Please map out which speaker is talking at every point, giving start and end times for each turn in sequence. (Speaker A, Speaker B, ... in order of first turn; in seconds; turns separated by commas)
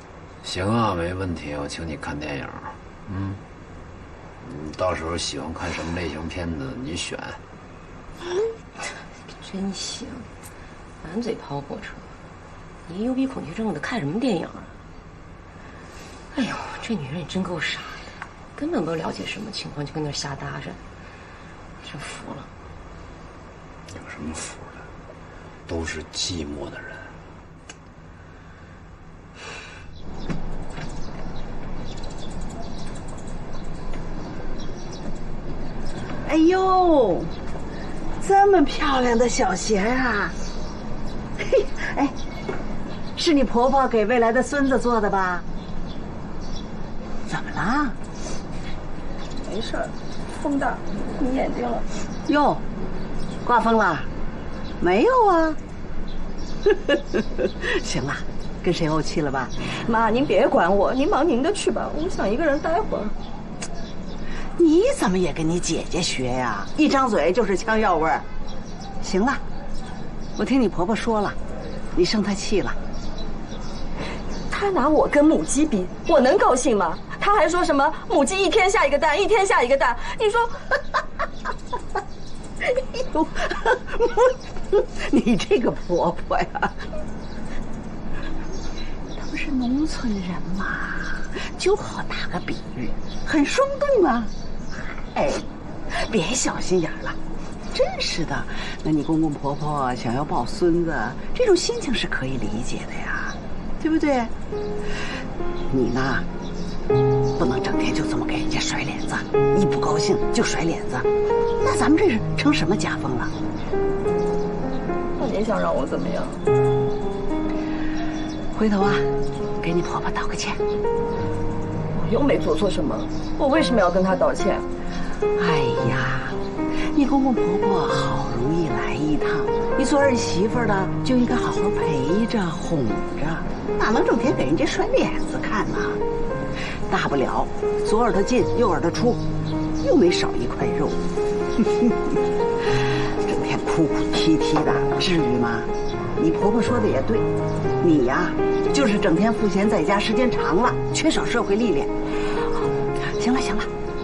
Speaker A: 0.4-3.4, Speaker A: 4.4-7.4, Speaker B: 9.2-10.3, Speaker B: 11.0-12.1, Speaker B: 12.9-14.7, Speaker B: 16.3-18.0, Speaker B: 18.5-20.8, Speaker B: 21.8-22.5, Speaker A: 23.9-24.8, Speaker A: 25.7-27.1, Speaker C: 36.2-37.3, Speaker C: 38.2-40.3, Speaker C: 41.4-42.1, Speaker C: 43.1-45.4, Speaker C: 47.3-48.0, Speaker D: 49.5-51.8, Speaker C: 52.3-52.6, Speaker C: 53.4-54.1, Speaker C: 54.8-55.6, Speaker C: 56.7-59.5, Speaker D: 59.6-63.1, Speaker C: 64.6-68.2, Speaker C: 69.0-69.4, Speaker C: 70.4-71.4, Speaker C: 72.0-72.8, Speaker D: 74.5-80.6, Speaker C: 83.1-86.8, Speaker C: 89.6-97.2, Speaker C: 97.7-104.3, Speaker C: 105.7-106.2, Speaker C: 107.4-111.1, Speaker C: 111.6-113.3, Speaker D: 115.2-116.4, Speaker C: 118.5-120.6, Speaker D: 121.9-124.6, Speaker C: 125.4-126.4, Speaker C: 126.9-136.0, Speaker C: 136.9-139.2, Speaker C: 139.8-141.0, Speaker C: 141.6-141.9, Speaker C: 143.2-147.2, Speaker C: 147.8-151.9, Speaker C: 153.0-153.7